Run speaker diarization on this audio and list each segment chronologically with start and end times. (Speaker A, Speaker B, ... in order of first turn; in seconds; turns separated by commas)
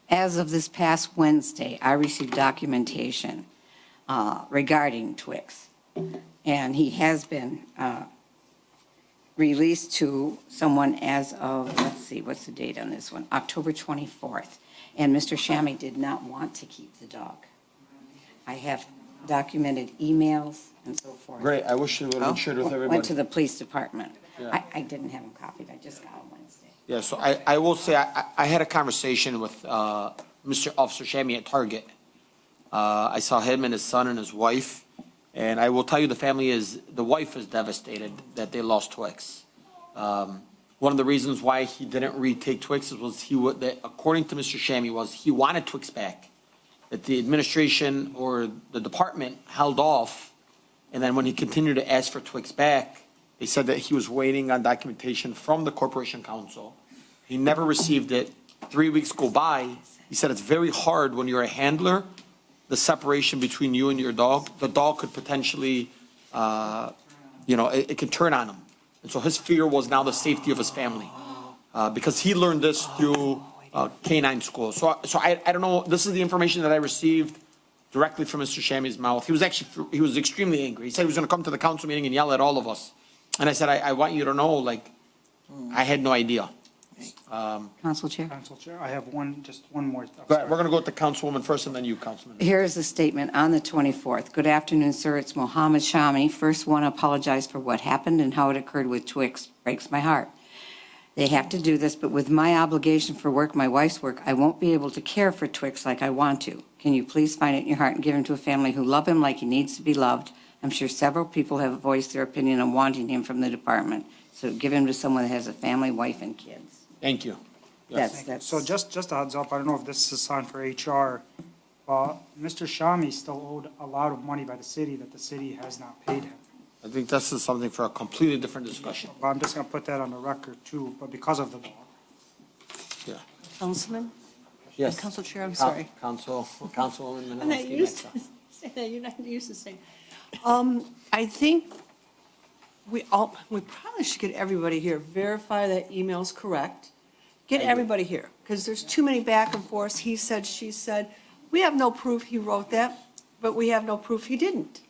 Speaker A: 0.1-3.5, Speaker A: 4.1-5.7, Speaker A: 6.4-8.1, Speaker A: 9.4-17.5, Speaker A: 18.5-21.5, Speaker B: 21.4-23.1, Speaker A: 22.6-26.7, Speaker B: 26.9-31.9, Speaker B: 32.7-46.3, Speaker B: 46.9-50.3, Speaker B: 50.9-62.1, Speaker B: 62.7-67.0, Speaker B: 67.5-71.2, Speaker B: 71.7-77.4, Speaker B: 77.9-84.9, Speaker B: 85.7-86.5, Speaker B: 87.3-87.7, Speaker A: 87.8-88.3, Speaker C: 88.3-90.6, Speaker B: 90.3-92.5, Speaker A: 92.4-100.3, Speaker A: 101.2-116.8, Speaker B: 117.0-118.0, Speaker A: 117.9-118.7, Speaker C: 118.0-121.2, Speaker C: 121.9-126.4, Speaker B: 126.8-129.1, Speaker C: 129.1-131.9, Speaker D: 133.6-134.1, Speaker B: 134.8-138.1, Speaker D: 134.9-135.9, Speaker D: 137.4-139.8, Speaker D: 140.4-141.7, Speaker D: 142.9-146.9, Speaker D: 147.5-154.8, Speaker B: 147.6-147.9